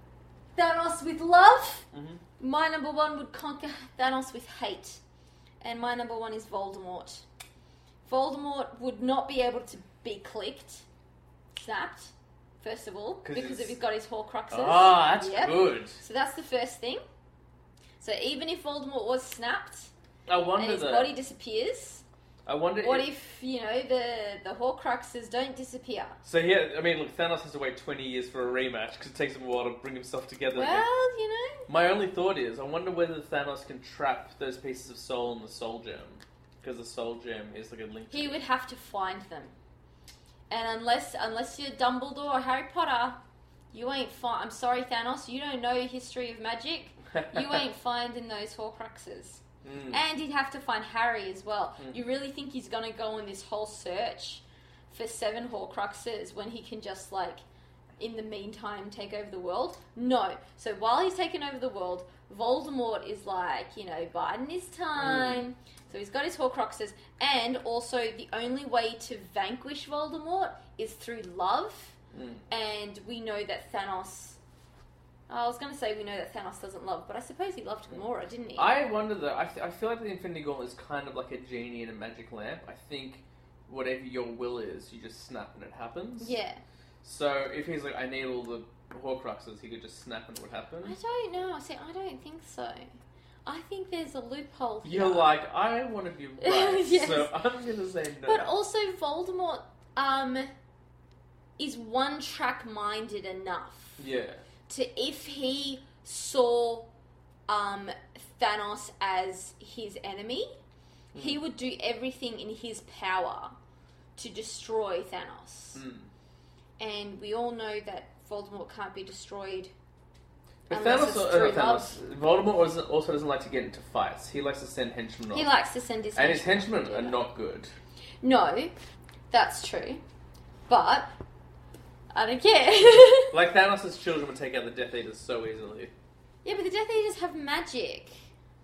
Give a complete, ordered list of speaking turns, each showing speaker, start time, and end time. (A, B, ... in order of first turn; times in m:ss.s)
0:00.6-0:01.9 A
0:01.9-0:02.2 B
0:02.4-0:05.0 A
0:05.6-0:07.2 A
0:08.1-0:10.8 A
0:11.5-0:17.0 A
0:13.2-0:13.8 B
0:14.5-0:16.0 B
0:18.0-0:19.9 A
0:20.3-0:21.1 B
0:20.6-0:22.0 A
0:22.5-0:23.1 B
0:22.8-0:26.2 A
0:26.2-0:30.8 B
0:30.6-0:31.7 A
0:31.7-0:38.4 B
0:38.1-0:39.6 A
0:40.5-0:43.2 A
0:43.7-0:57.4 A
0:47.1-0:47.6 B
0:49.6-0:50.0 B
0:58.0-1:12.0 A
1:05.0-1:05.4 B
1:12.1-1:12.4 B
1:12.5-1:14.4 A
1:15.3-1:18.7 A
1:18.6-1:26.4 B
1:26.2-1:26.6 A
1:27.0-1:31.0 B
1:30.8-1:32.9 A
1:33.4-1:35.4 A
1:34.8-1:38.5 B
1:36.4-1:37.3 A
1:38.3-1:40.5 A
1:41.6-1:44.0 A
1:44.0-1:44.4 B
1:44.7-1:46.9 A
1:47.5-1:50.6 A
1:51.1-1:51.4 B
1:51.2-1:53.6 A
1:54.2-1:55.8 A
1:55.7-1:56.1 B
1:56.8-1:59.7 A
2:00.7-2:05.5 B
2:00.7-2:02.0 A
2:05.3-2:07.2 A
2:06.1-2:07.7 B
2:08.2-2:08.8 A
2:09.3-2:10.0 A
2:10.7-2:11.1 A
2:12.1-2:13.4 A
2:13.3-2:15.9 B
2:16.4-2:18.3 A